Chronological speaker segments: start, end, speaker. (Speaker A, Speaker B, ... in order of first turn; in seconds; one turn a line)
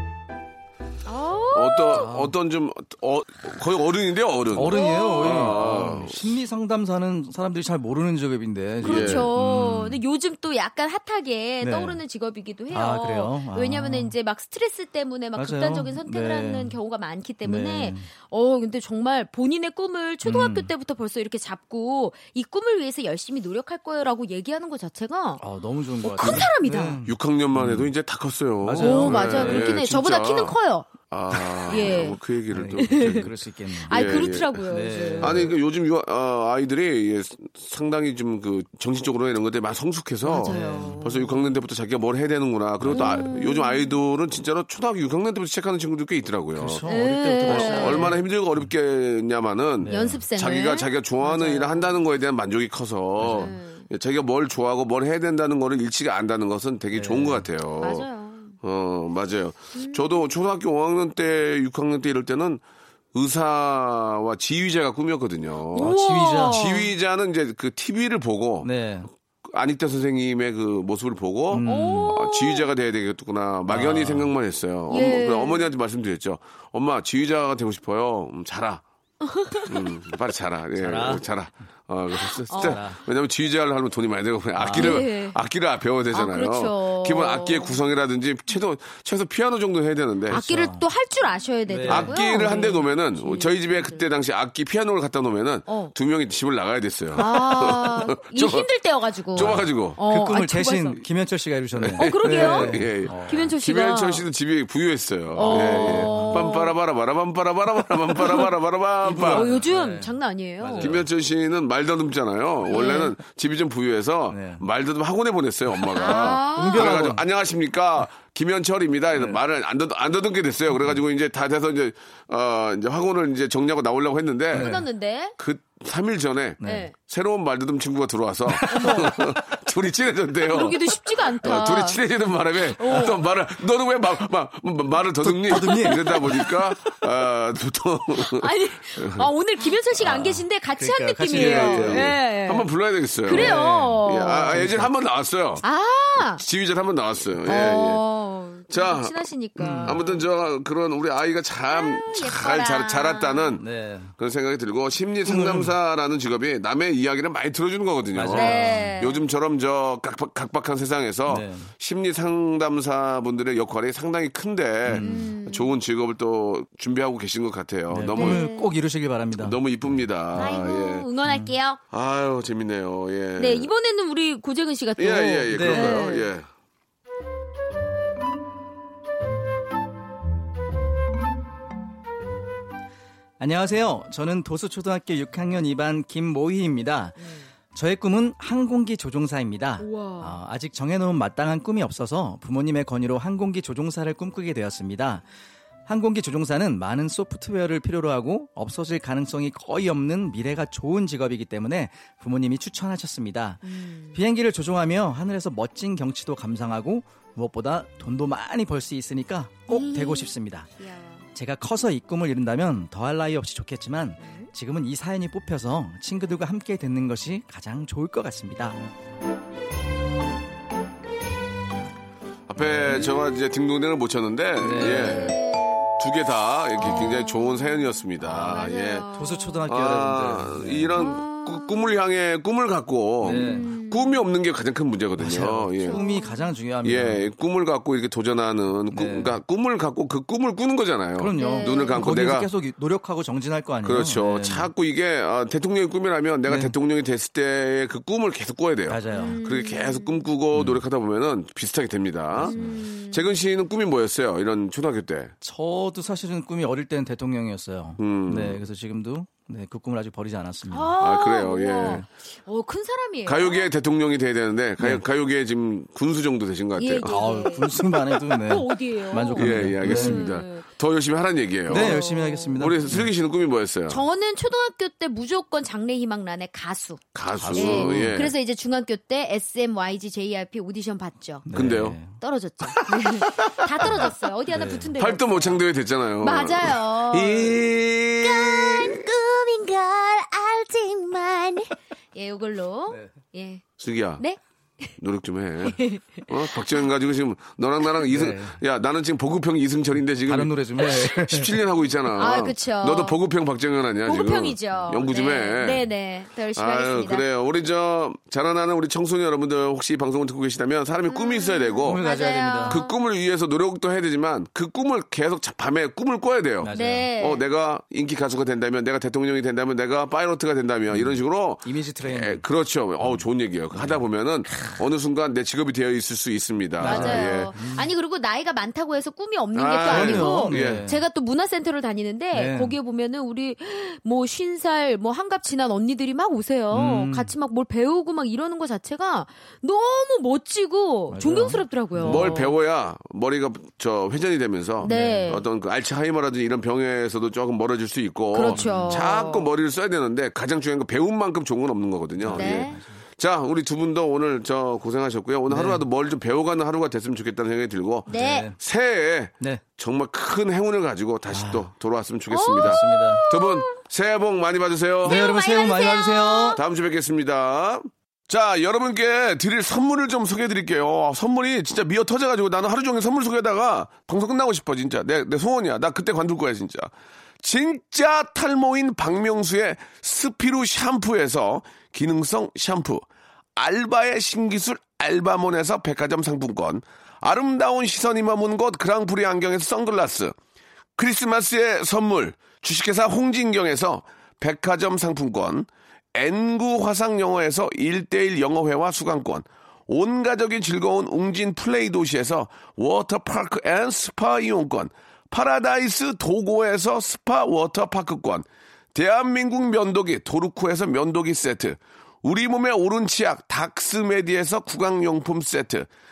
Speaker A: 1.1-2.1
Speaker B: 1.5-6.2
Speaker C: 1.9-2.4
Speaker C: 4.5-10.0
Speaker A: 4.7-5.6
Speaker B: 8.8-9.3
Speaker A: 8.8-25.4
Speaker C: 11.6-12.0
Speaker C: 12.7-14.1
Speaker C: 15.4-16.8
Speaker C: 17.4-18.1
Speaker C: 20.2-20.7
Speaker C: 25.4-27.9
Speaker A: 26.0-27.0
Speaker B: 26.2-26.5
Speaker B: 27.1-30.5
Speaker C: 28.6-29.7
Speaker A: 28.8-32.2
Speaker B: 31.1-33.3
Speaker C: 32.5-35.5
Speaker A: 32.8-35.5
Speaker B: 33.9-34.6
Speaker B: 35.2-46.9
Speaker C: 40.2-41.1
Speaker A: 40.3-41.4
Speaker C: 42.8-43.3
Speaker A: 42.9-43.9
Speaker C: 46.5-48.2
Speaker A: 46.9-48.1
Speaker B: 47.4-58.1
Speaker C: 49.8-50.2
Speaker A: 49.9-52.0
Speaker C: 53.2-53.5
Speaker A: 53.2-53.9
Speaker C: 56.9-57.5
Speaker A: 57.8-58.6
Speaker B: 58.6-62.6
Speaker A: 59.7-60.3
Speaker B: 63.1-66.0
Speaker A: 65.7-66.9
Speaker C: 65.8-66.7
Speaker B: 66.5-68.7
Speaker C: 68.6-69.1
Speaker B: 69.4-78.8
Speaker C: 71.5-72.1
Speaker A: 71.6-72.7
Speaker C: 73.7-74.3
Speaker A: 74.9-75.7
Speaker A: 79.2-79.9
Speaker B: 79.7-90.4
Speaker C: 80.8-81.2
Speaker A: 82.5-82.8
Speaker C: 82.6-83.0
Speaker C: 84.6-85.0
Speaker A: 84.8-85.4
Speaker A: 86.1-87.8
Speaker C: 90.3-90.8
Speaker A: 90.3-94.1
Speaker C: 91.7-92.1
Speaker B: 91.9-98.7
Speaker A: 95.7-95.9
Speaker A: 97.1-101.0
Speaker B: 99.3-100.0
Speaker C: 99.4-103.5
Speaker B: 101.8-109.5
Speaker A: 102.0-104.3
Speaker C: 105.4-106.5
Speaker A: 105.4-106.8
Speaker A: 108.2-108.5
Speaker C: 109.0-111.1
Speaker A: 109.2-111.0
Speaker B: 110.8-124.7
Speaker A: 112.7-113.1
Speaker C: 114.3-114.6
Speaker C: 115.7-117.2
Speaker A: 115.9-117.1
Speaker C: 124.5-124.8
Speaker A: 124.5-125.3
Speaker B: 125.4-139.3
Speaker C: 126.6-126.9
Speaker A: 126.6-126.9
Speaker C: 128.5-129.4
Speaker A: 128.7-129.1
Speaker A: 130.4-132.0
Speaker A: 132.7-133.2
Speaker C: 135.2-137.0
Speaker A: 135.5-136.4
Speaker A: 138.2-142.7
Speaker C: 140.0-142.2
Speaker B: 141.3-145.6
Speaker A: 143.2-144.7
Speaker C: 143.3-144.9
Speaker A: 145.6-146.4
Speaker B: 146.3-148.0
Speaker A: 147.4-150.2
Speaker B: 148.7-149.1
Speaker C: 149.6-150.0
Speaker B: 149.8-168.4
Speaker A: 151.7-153.6
Speaker C: 153.6-154.1
Speaker C: 155.2-155.7
Speaker C: 158.1-159.0
Speaker A: 158.3-159.2
Speaker C: 161.3-161.7
Speaker C: 164.8-165.1
Speaker A: 165.0-165.8
Speaker C: 167.9-170.6
Speaker A: 168.1-168.7
Speaker B: 169.4-171.1
Speaker A: 170.3-171.8
Speaker C: 171.3-171.5
Speaker B: 171.9-173.7
Speaker A: 173.4-176.3
Speaker B: 175.0-176.5
Speaker C: 175.5-176.1
Speaker C: 183.4-195.2
Speaker A: 187.2-187.4
Speaker A: 189.8-190.4
Speaker C: 195.9-210.7
Speaker A: 203.6-204.2
Speaker A: 209.7-211.2
Speaker C: 211.3-218.8
Speaker A: 214.2-214.5
Speaker B: 222.5-225.4
Speaker C: 222.6-222.9
Speaker C: 224.6-225.2
Speaker A: 224.8-225.9
Speaker B: 225.9-229.1
Speaker A: 226.8-229.6
Speaker C: 228.2-228.6
Speaker C: 229.1-231.1
Speaker B: 229.7-236.0
Speaker A: 230.9-231.9
Speaker C: 233.2-233.7
Speaker A: 233.3-234.3
Speaker C: 235.2-237.2
Speaker A: 235.8-236.5
Speaker B: 236.8-242.5
Speaker C: 238.9-239.4
Speaker C: 241.2-244.7
Speaker A: 241.4-242.1
Speaker B: 243.8-255.3
Speaker C: 246.5-246.7
Speaker C: 248.9-249.4
Speaker A: 249.1-250.2
Speaker C: 250.5-250.8
Speaker C: 252.4-252.8
Speaker A: 252.4-253.3
Speaker C: 255.4-260.9
Speaker B: 258.0-258.6
Speaker A: 260.7-263.7
Speaker B: 261.0-262.0
Speaker C: 261.8-262.1
Speaker B: 263.3-267.2
Speaker A: 266.8-270.7
Speaker C: 267.1-270.2
Speaker B: 269.4-272.0
Speaker C: 271.7-273.1
Speaker A: 271.7-273.0
Speaker B: 272.6-274.0
Speaker A: 273.9-281.5
Speaker B: 277.1-278.3
Speaker C: 277.4-278.3
Speaker C: 281.4-282.1
Speaker B: 281.5-282.0
Speaker A: 282.1-285.6
Speaker B: 282.8-284.1
Speaker C: 284.5-284.9
Speaker B: 284.9-289.1
Speaker A: 286.2-287.7
Speaker A: 288.2-293.6
Speaker B: 293.8-294.2
Speaker A: 294.2-294.9
Speaker B: 295.0-305.9
Speaker A: 295.6-296.9
Speaker C: 298.1-298.6
Speaker C: 300.2-301.6
Speaker A: 302.2-303.2
Speaker A: 304.1-307.2
Speaker B: 306.6-312.0
Speaker A: 311.1-313.0
Speaker C: 311.9-312.8
Speaker B: 312.7-327.5
Speaker C: 316.6-317.1
Speaker A: 316.7-317.4
Speaker C: 320.9-322.4
Speaker C: 323.7-324.0
Speaker C: 326.8-327.9
Speaker A: 326.8-342.6
Speaker B: 329.5-330.9
Speaker C: 329.9-331.0
Speaker C: 332.3-332.8
Speaker C: 336.7-337.3
Speaker C: 341.1-342.3
Speaker B: 342.1-365.2
Speaker A: 344.8-345.4
Speaker C: 344.8-345.4
Speaker A: 348.3-349.5
Speaker C: 348.5-349.0
Speaker C: 352.2-353.0
Speaker A: 352.3-352.8
Speaker C: 355.5-355.8
Speaker A: 358.1-358.5
Speaker C: 358.1-358.6
Speaker C: 361.3-361.7
Speaker A: 362.3-363.8
Speaker C: 362.6-363.2
Speaker C: 365.0-366.6
Speaker A: 365.1-366.6
Speaker B: 366.6-376.9
Speaker B: 377.4-390.4
Speaker B: 391.0-415.9